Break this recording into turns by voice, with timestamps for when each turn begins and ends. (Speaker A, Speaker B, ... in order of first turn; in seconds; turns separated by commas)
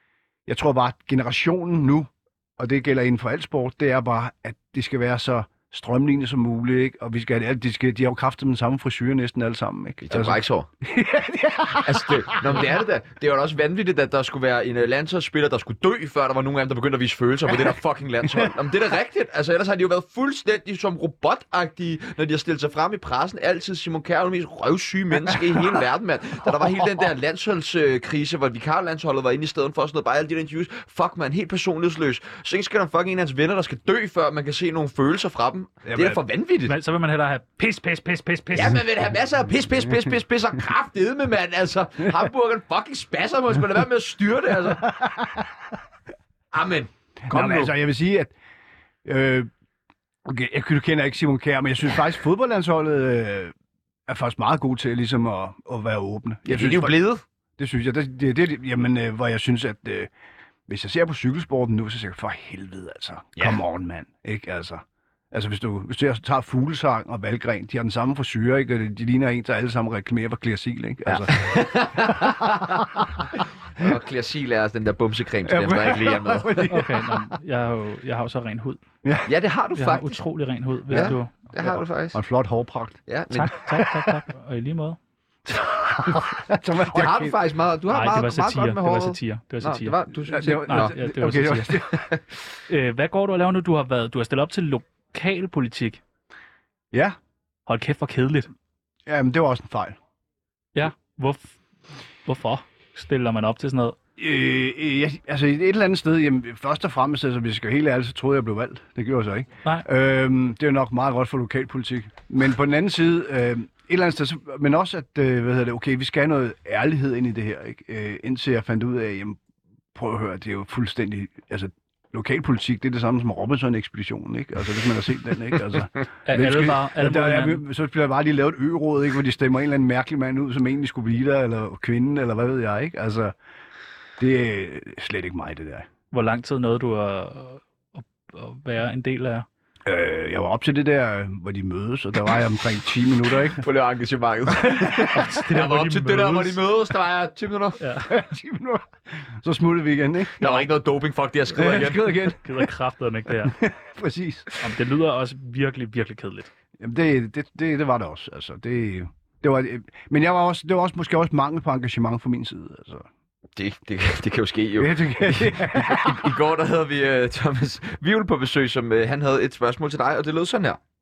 Speaker A: 0.5-12.6, Speaker B: 10.0-10.7, Speaker B: 11.8-36.7, Speaker A: 35.8-36.2, Speaker C: 36.7-38.8, Speaker B: 38.5-44.9, Speaker A: 44.9-45.4, Speaker B: 46.5-47.7, Speaker A: 47.2-48.3, Speaker A: 49.0-49.5, Speaker A: 50.2-53.5, Speaker A: 54.1-57.0, Speaker B: 56.5-57.2, Speaker A: 57.6-60.1, Speaker A: 60.7-73.3, Speaker B: 71.0-76.7, Speaker A: 75.4-77.3, Speaker C: 76.7-78.8, Speaker A: 79.0-79.3, Speaker B: 79.2-80.2, Speaker C: 79.8-81.3, Speaker B: 80.9-82.2, Speaker A: 80.9-83.0, Speaker B: 83.1-83.5, Speaker C: 83.3-85.0, Speaker A: 83.7-84.2, Speaker A: 85.5-87.3, Speaker B: 86.9-91.0, Speaker C: 87.9-89.9, Speaker A: 90.3-92.1, Speaker C: 90.7-91.8, Speaker C: 92.7-96.0, Speaker A: 96.9-97.2, Speaker C: 97.7-98.5, Speaker A: 99.0-100.0, Speaker C: 100.7-101.5, Speaker C: 102.2-104.0, Speaker A: 104.2-119.4, Speaker A: 119.9-133.3, Speaker C: 126.2-127.6, Speaker A: 134.2-135.9, Speaker C: 136.1-139.4, Speaker A: 139.8-143.7, Speaker B: 143.6-147.8, Speaker C: 145.1-146.6, Speaker C: 147.8-148.1, Speaker A: 148.1-150.4, Speaker B: 150.4-152.1, Speaker A: 151.5-152.7, Speaker C: 152.4-153.6, Speaker A: 153.4-154.4, Speaker C: 154.6-156.5, Speaker A: 156.8-163.1, Speaker B: 163.6-170.8, Speaker A: 164.8-166.4